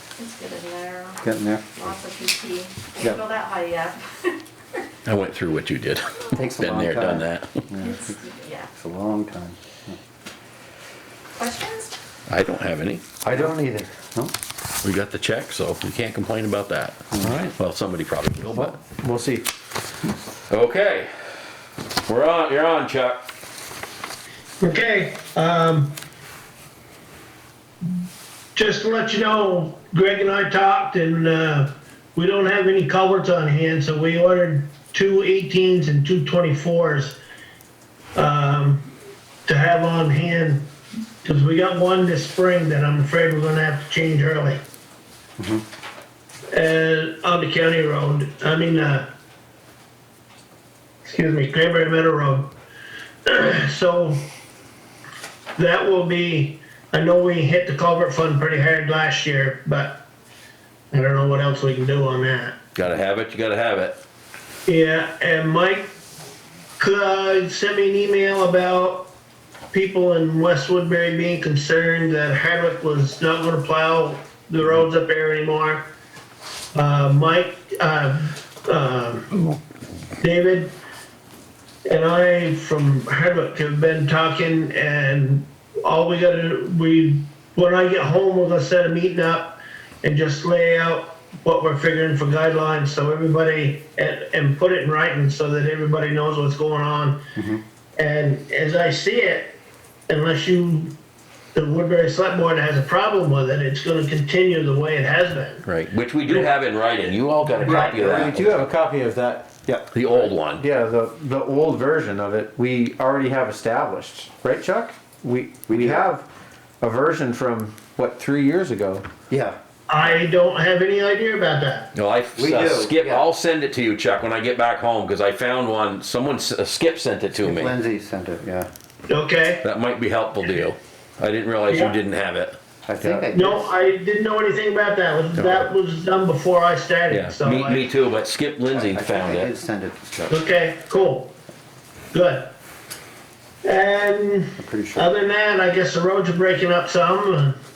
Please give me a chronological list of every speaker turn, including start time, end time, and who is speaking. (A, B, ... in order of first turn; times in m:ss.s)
0:00.2-0:01.2 A
0:01.2-0:01.9 B
0:01.7-0:04.4 A
0:05.0-0:07.6 C
0:06.3-0:08.2 B
0:07.8-0:08.7 A
0:08.7-0:10.0 B
0:11.4-0:12.0 A
0:12.3-0:13.0 C
0:13.2-0:13.9 D
0:13.3-0:14.3 B
0:14.8-0:18.8 C
0:17.2-0:17.5 D
0:18.6-0:19.4 D
0:20.5-0:21.1 C
0:22.1-0:23.2 C
0:24.6-0:26.0 E
0:28.5-0:37.2 E
0:38.1-0:38.9 E
0:39.4-0:44.6 E
0:45.4-0:45.6 B
0:46.5-0:49.1 E
0:51.0-0:52.6 E
0:53.2-0:54.3 E
0:55.6-1:00.1 E
1:00.9-1:02.6 E
1:02.7-1:04.0 C
1:04.6-1:05.9 E
1:06.8-1:09.1 E
1:09.7-1:15.9 E
1:16.7-1:19.3 E
1:20.2-1:20.8 E
1:21.8-1:37.2 E
1:37.4-1:37.6 B
1:38.0-1:40.9 E
1:41.5-1:45.6 E
1:45.6-1:48.5 C
1:46.2-1:46.5 E
1:47.6-1:48.3 B
1:47.8-1:49.5 D
1:49.9-1:50.6 C
1:50.5-1:56.2 D
1:55.7-1:56.0 B
1:56.8-1:59.1 D
1:59.3-1:59.6 B
1:59.9-2:01.9 E
2:01.9-2:07.7 C
2:02.4-2:03.3 B
2:07.4-2:08.7 B
2:09.1-2:09.6 E
2:09.6-2:12.6 C
2:11.7-2:12.0 E
2:12.8-2:13.7 B
2:13.0-2:13.3 D
2:13.3-2:17.8 E
2:15.3-2:15.7 C
2:17.1-2:19.5 C
2:18.7-2:20.4 B
2:20.3-2:21.3 E
2:22.1-2:22.5 E
2:23.6-2:27.6 E
2:24.6-2:25.1 B